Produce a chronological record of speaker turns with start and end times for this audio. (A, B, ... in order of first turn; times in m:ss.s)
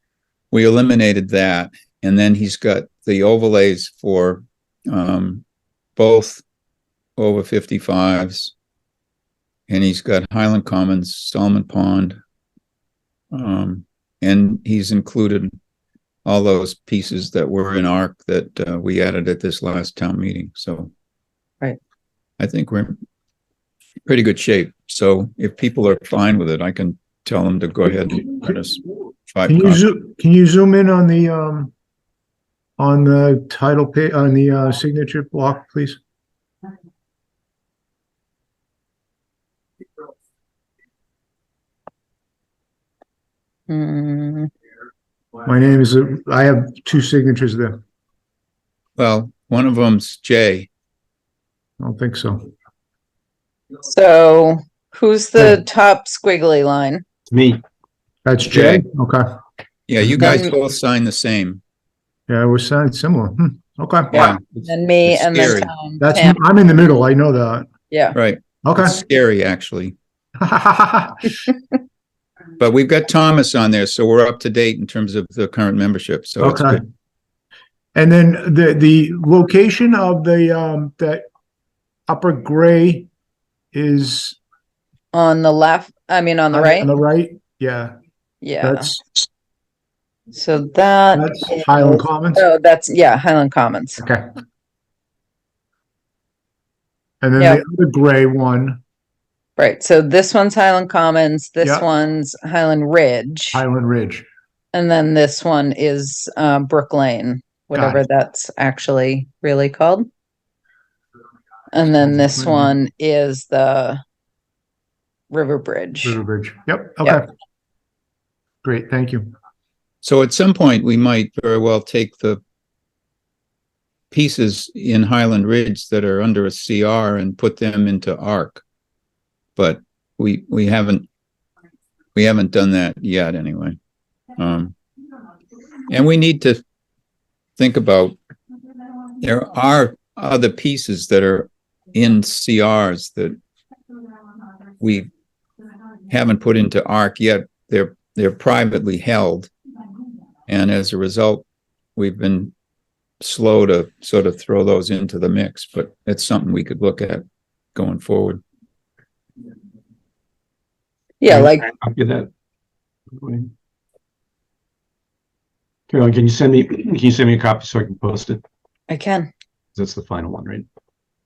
0:00.5-0:05.4 A
0:06.0-0:06.4 A
0:07.2-0:08.5 A
0:09.7-0:12.2 A
0:13.3-0:15.5 A
0:16.2-0:20.9 A
0:22.4-0:23.0 A
0:24.1-0:29.8 A
0:29.4-0:31.7 B
0:32.8-0:36.0 B
0:43.7-0:44.5 C
0:45.4-0:47.8 B
0:49.0-0:50.7 A
0:51.8-0:52.5 B
0:53.8-0:57.0 C
0:57.3-0:57.6 D
0:58.2-0:59.2 B
0:58.5-0:58.8 A
0:59.9-1:01.6 A
1:00.0-1:00.4 B
1:00.2-1:00.5 C
1:02.3-1:04.1 B
1:04.1-1:06.4 C
1:04.1-1:04.4 A
1:05.0-1:05.7 A
1:06.0-1:07.7 B
1:07.9-1:08.2 C
1:08.1-1:09.9 A
1:08.6-1:09.0 B
1:10.4-1:11.3 B
1:12.6-1:16.8 A
1:16.4-1:16.8 B
1:17.9-1:21.2 B
1:22.1-1:23.1 B
1:23.7-1:24.4 B
1:25.1-1:27.0 C
1:26.5-1:27.9 B
1:28.4-1:28.9 C
1:28.6-1:29.2 B
1:30.3-1:34.0 C
1:31.1-1:32.4 B
1:34.0-1:34.3 B
1:37.2-1:38.8 B
1:39.6-1:43.6 C
1:43.5-1:44.2 B
1:44.7-1:50.1 C
1:47.7-1:48.0 B
1:51.7-1:54.0 C
1:52.0-1:52.7 B
1:55.3-1:56.2 C
1:56.0-1:57.3 B
1:58.6-1:59.3 B
2:00.0-2:02.4 A
2:04.1-2:08.6 A
2:09.6-2:11.1 A
2:12.1-2:13.8 A
2:14.4-2:14.7 A
2:15.9-2:16.6 A
2:17.6-2:18.2 A
2:19.2-2:23.4 A
2:24.8-2:25.1 A
2:26.1-2:29.5 A
2:30.5-2:31.4 A
2:32.0-2:32.5 A
2:33.2-2:37.2 A
2:37.7-2:38.4 A
2:41.2-2:41.7 C
2:41.3-2:42.3 D
2:43.1-2:43.5 D
2:45.9-2:48.4 D
2:48.9-2:49.3 C
2:49.7-2:50.6 D